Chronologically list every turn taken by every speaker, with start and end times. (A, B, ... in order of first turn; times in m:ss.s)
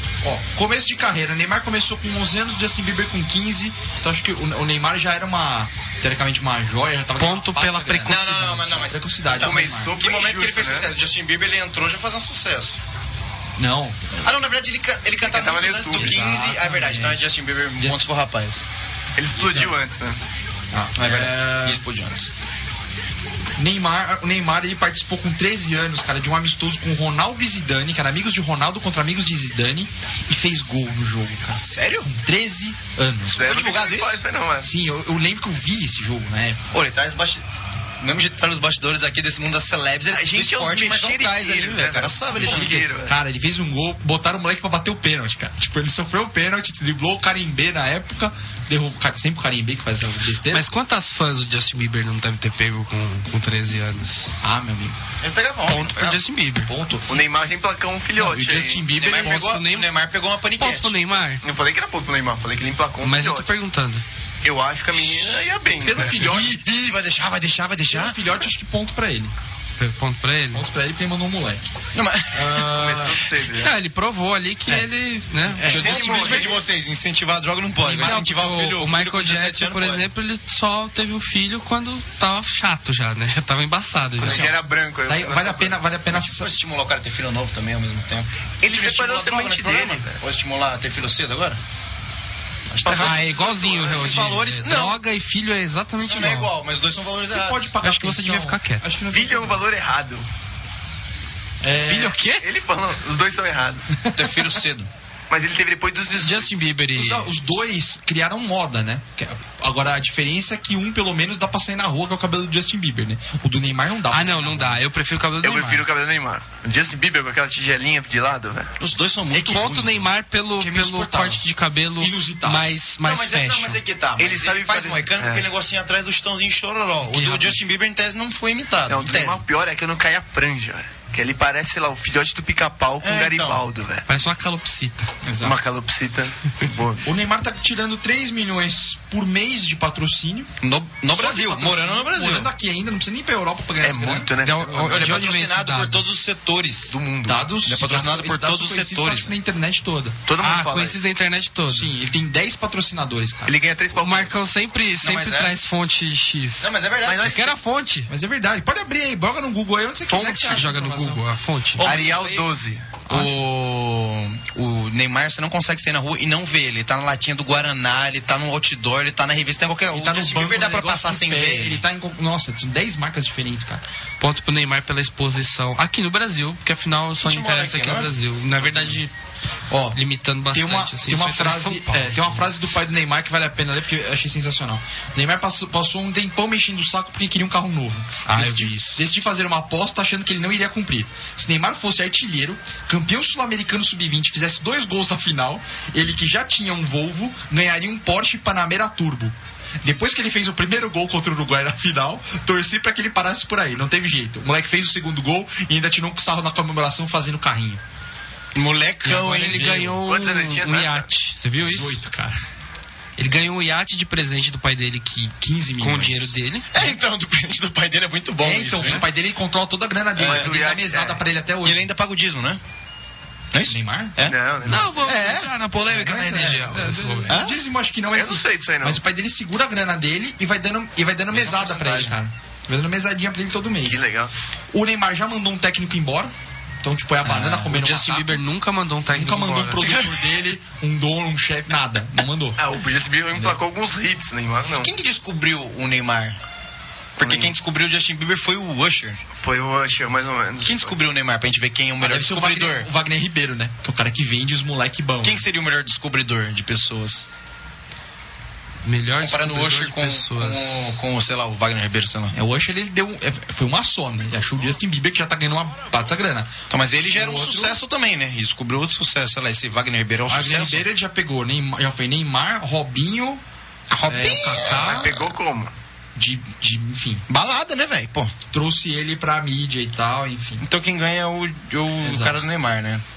0:00.2-0:10.0 A
0:07.2-0:08.5 B
0:08.1-0:12.8 C
0:09.3-0:10.9 D
0:13.6-0:14.2 A
0:14.2-0:18.6 C
0:15.2-0:16.3 D
0:15.9-0:17.3 A
0:17.8-0:18.1 A
0:19.2-0:20.2 D
0:19.4-0:19.8 A
0:20.7-0:21.8 A
0:21.0-0:22.3 C
0:23.6-0:33.5 A
0:31.8-0:32.1 C
0:33.3-0:34.7 D
0:33.4-0:34.2 C
0:34.6-0:36.6 A
0:36.7-0:37.4 C
0:38.0-0:42.8 C
0:40.1-0:43.2 D
0:42.3-0:50.7 A
0:50.5-0:54.3 B
0:54.4-0:55.0 A
0:55.2-0:56.2 C
0:55.7-0:56.7 B
0:56.6-0:57.2 A
0:57.1-0:58.9 D
0:58.2-0:59.6 A
0:58.9-1:01.0 C
0:59.1-0:59.9 B
1:00.6-1:01.4 B
1:01.4-1:03.5 D
1:03.0-1:04.0 B
1:04.4-1:06.4 D
1:05.8-1:06.6 A
1:06.1-1:08.2 C
1:07.9-1:09.3 A
1:09.8-1:10.6 B
1:10.5-1:11.7 A
1:12.0-1:12.8 C
1:12.3-1:13.3 A
1:12.8-1:13.7 D
1:13.6-1:15.8 B
1:15.4-1:16.6 A
1:15.7-1:16.6 D
1:15.7-1:20.1 C
1:17.8-1:24.5 B
1:17.9-1:18.2 A
1:24.2-1:25.8 D
1:24.2-1:24.5 A
1:25.1-1:26.5 A
1:26.1-1:31.6 C
1:28.6-1:30.2 D
1:32.7-1:35.0 C
1:32.8-1:34.2 D
1:32.9-1:36.6 B
1:36.0-1:37.7 C
1:36.8-1:39.6 A
1:37.8-1:38.8 B
1:39.1-1:40.2 D
1:41.6-1:42.2 A
1:41.8-1:42.4 B
1:42.4-1:43.8 D
1:44.0-1:44.6 A
1:44.2-1:44.9 C
1:45.3-1:46.6 D
1:46.2-1:47.3 B
1:47.0-1:54.8 A
1:54.1-1:55.8 B
1:55.4-1:58.7 D
1:58.8-2:00.1 C
1:59.3-2:03.8 B
2:00.6-2:01.4 A
2:02.0-2:02.7 A
2:03.0-2:09.4 C
2:04.2-2:05.5 D
2:07.1-2:07.6 B
2:08.9-2:14.0 D
2:13.0-2:13.6 C
2:14.1-2:15.1 B
2:15.2-2:15.6 A
2:15.4-2:17.0 D
2:17.0-2:20.5 A
2:20.6-2:22.5 C
2:21.1-2:24.3 A
2:23.8-2:25.2 D
2:24.4-2:26.1 B
2:24.8-2:27.0 C
2:26.9-2:27.4 D
2:27.2-2:30.2 A
2:27.6-2:29.3 C
2:30.3-2:31.0 D
2:30.4-2:31.9 B
2:31.7-2:33.5 A
2:33.4-2:34.4 D
2:34.0-2:38.1 B
2:35.0-2:35.6 C
2:36.6-2:37.5 C
2:37.0-2:37.4 D
2:38.1-2:41.2 A
2:40.1-2:41.8 B
2:41.8-2:42.5 C
2:41.8-2:42.8 D
2:43.1-2:43.4 A
2:43.1-2:51.8 C
2:49.9-2:53.8 A
2:54.2-2:59.1 B
2:57.2-2:58.1 C
2:58.6-2:59.0 C
2:59.7-3:00.0 A
2:59.9-3:02.5 B
3:00.5-3:27.8 A
3:08.3-3:09.0 B
3:28.6-3:29.8 C
3:29.0-3:32.3 B
3:29.1-3:30.0 A
3:30.0-3:31.1 D
3:31.6-3:32.3 A
3:33.2-3:36.7 B
3:35.4-3:36.4 A
3:36.7-3:39.0 C
3:38.4-3:41.9 A
3:40.2-3:40.5 C
3:40.2-3:41.2 D
3:41.6-3:42.6 C
3:43.5-3:45.5 C
3:43.7-3:44.2 A
3:44.3-3:44.9 D
3:44.7-3:47.4 B
3:44.7-3:54.0 A
3:47.3-3:47.6 C
3:48.1-3:49.0 D
3:51.3-3:52.2 C
3:53.9-3:54.3 D
3:54.7-3:56.3 A
3:56.8-3:58.4 A
3:57.3-4:00.0 B
3:59.1-4:02.6 A
4:02.6-4:04.9 D
4:03.3-4:03.6 A
4:04.8-4:06.4 C
4:07.2-4:09.2 C
4:07.2-4:07.5 D
4:09.4-4:11.0 D
4:10.6-4:12.9 C
4:12.0-4:15.4 A
4:15.2-4:17.2 C
4:18.8-4:21.0 B
4:19.2-4:22.4 C
4:22.3-4:26.6 A
4:26.7-4:30.8 C
4:27.1-4:27.8 A
4:30.3-4:33.4 A
4:33.9-4:35.3 C
4:34.0-4:35.2 A
4:34.6-4:35.7 D
4:36.2-4:37.2 A
4:37.3-4:38.3 C
4:38.5-4:40.6 A
4:40.6-4:43.0 C
4:42.0-4:42.4 A